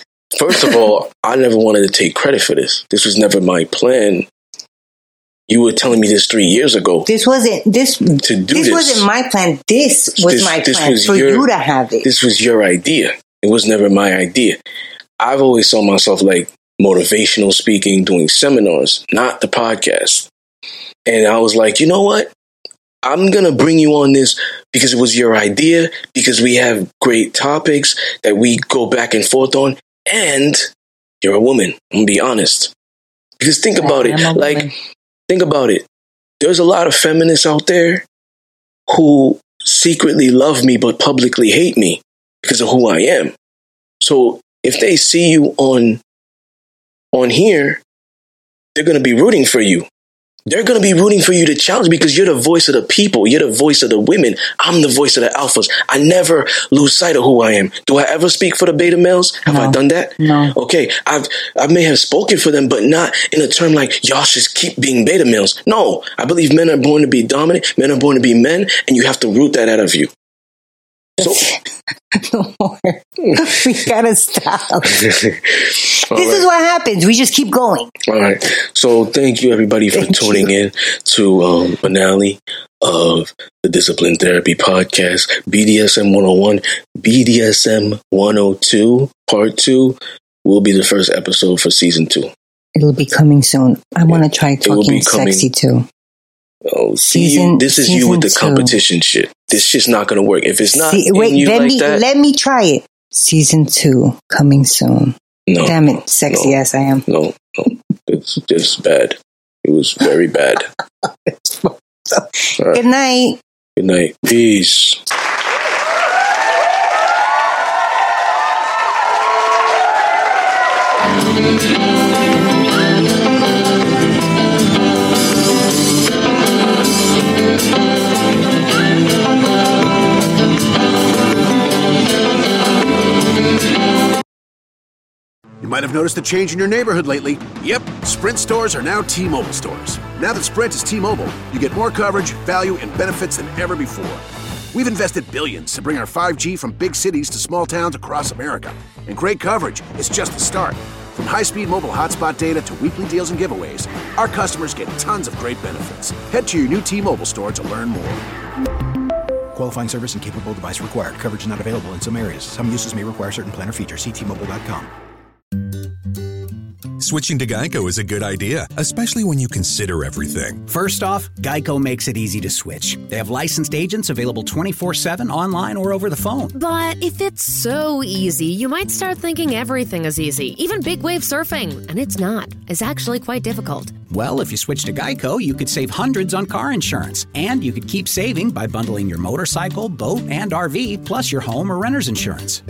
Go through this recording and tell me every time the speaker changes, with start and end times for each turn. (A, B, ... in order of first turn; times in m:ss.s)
0:00.4-0:04.3 A
0:05.5-0:07.1 A
0:07.1-0:12.1 B
0:08.2-0:09.0 A
0:10.2-0:11.5 A
0:12.0-0:14.6 A
0:15.2-0:20.3 A
0:21.1-0:22.3 A
0:23.0-0:30.7 A
0:31.2-0:32.7 A
0:33.4-0:34.7 A
0:33.8-0:34.7 B
0:35.3-0:35.8 A
0:36.4-0:38.0 A
0:38.9-0:43.3 A
0:44.0-0:46.0 A
0:47.1-0:47.8 A
0:48.8-0:49.9 A
0:50.5-1:10.1 A
0:59.5-1:00.6 B
1:11.2-1:11.6 B
1:11.2-1:11.5 A
1:12.1-1:15.0 B
1:14.9-1:16.4 A
1:16.1-1:17.9 B
1:18.1-1:32.3 A
1:20.0-1:20.5 B
1:32.8-1:35.9 B
1:34.1-1:35.5 A
1:36.7-1:42.0 A
1:37.0-1:38.8 B
1:40.8-1:47.0 B
1:45.5-1:50.7 A
1:51.3-1:53.4 B
1:53.8-1:55.0 A
2:15.6-2:38.2 C
2:39.5-2:44.9 D
2:47.0-2:50.6 E
2:50.7-2:56.6 F
2:56.5-3:04.0 G
3:04.1-3:12.6 F